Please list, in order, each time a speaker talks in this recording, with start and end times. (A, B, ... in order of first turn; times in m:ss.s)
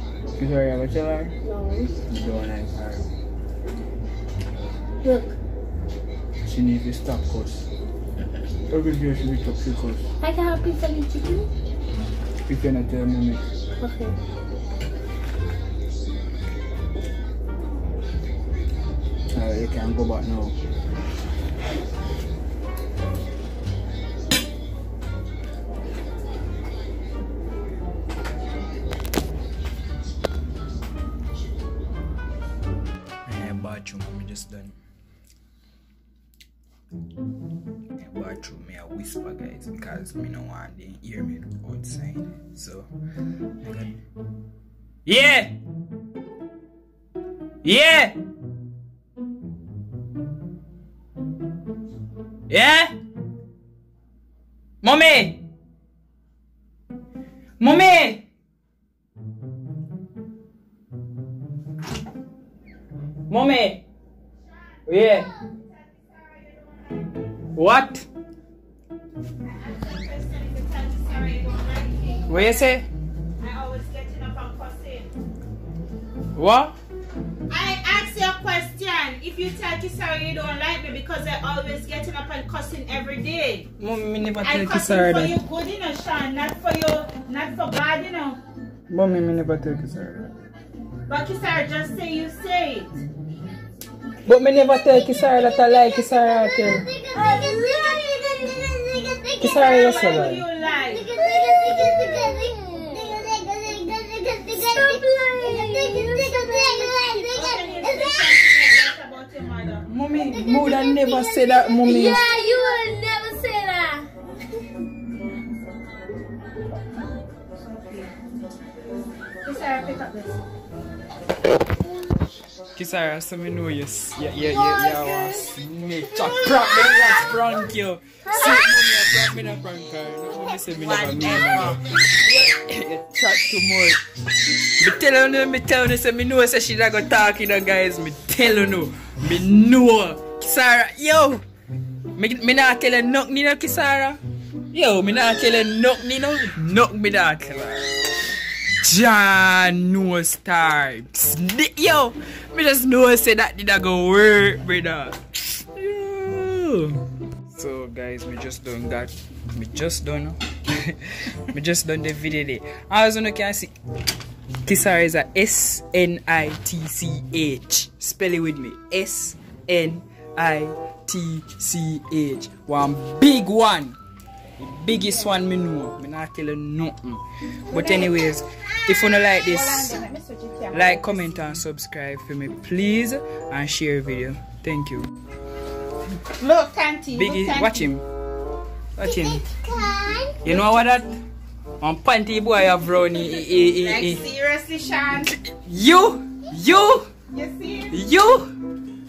0:00.4-0:01.3 A
0:01.4-0:02.0 B
0:02.1-0:03.1 A
0:05.0-0:05.3 B
0:06.4-0:07.7 A
0:08.7-0:10.0 A
0:10.2-0:11.5 B
0:12.4-0:13.4 A
0:13.8-0:14.1 B
0:19.3-0:20.6 A
0:33.2-0:34.7 A
0:38.0-0:42.9 A
0:43.6-0:44.0 A
0:45.0-0:45.5 A
0:47.6-0:48.2 A
0:52.5-0:52.9 A
0:54.8-0:55.4 A
0:57.6-0:58.2 A
1:03.3-1:03.8 A
1:04.9-1:05.3 A
1:05.2-1:07.2 C
1:07.5-1:08.1 A
1:09.4-1:12.7 C
1:12.3-1:12.9 A
1:13.4-1:15.1 C
1:16.3-1:16.8 A
1:17.5-1:23.7 C
1:23.8-1:25.3 A
1:24.4-1:28.4 C
1:28.9-1:30.3 A
1:31.1-1:32.9 C
1:34.2-1:36.9 A
1:37.1-1:39.4 B
1:39.4-1:40.4 A
1:39.4-1:41.1 C
1:41.1-1:47.4 B
1:47.3-1:49.9 C
1:49.9-1:52.2 A
1:51.8-1:54.1 B
1:59.4-2:00.3 C
2:02.7-2:14.0 A
2:10.8-2:11.8 C
2:14.8-2:21.4 A
2:22.1-2:24.2 A
2:24.7-2:27.8 A
2:28.8-2:43.7 A
2:44.6-2:54.0 A
2:54.6-3:00.0 A
2:57.7-2:58.1 C
2:59.4-3:01.3 C
3:00.7-3:05.1 A
3:06.3-3:07.8 C
3:07.1-3:08.0 A
3:09.0-3:09.4 A
3:09.8-3:10.1 B
3:10.4-3:11.1 A
3:11.8-3:14.2 A
3:13.0-3:15.3 C
3:15.2-3:17.1 A
3:17.3-3:18.0 C
3:17.9-3:18.5 A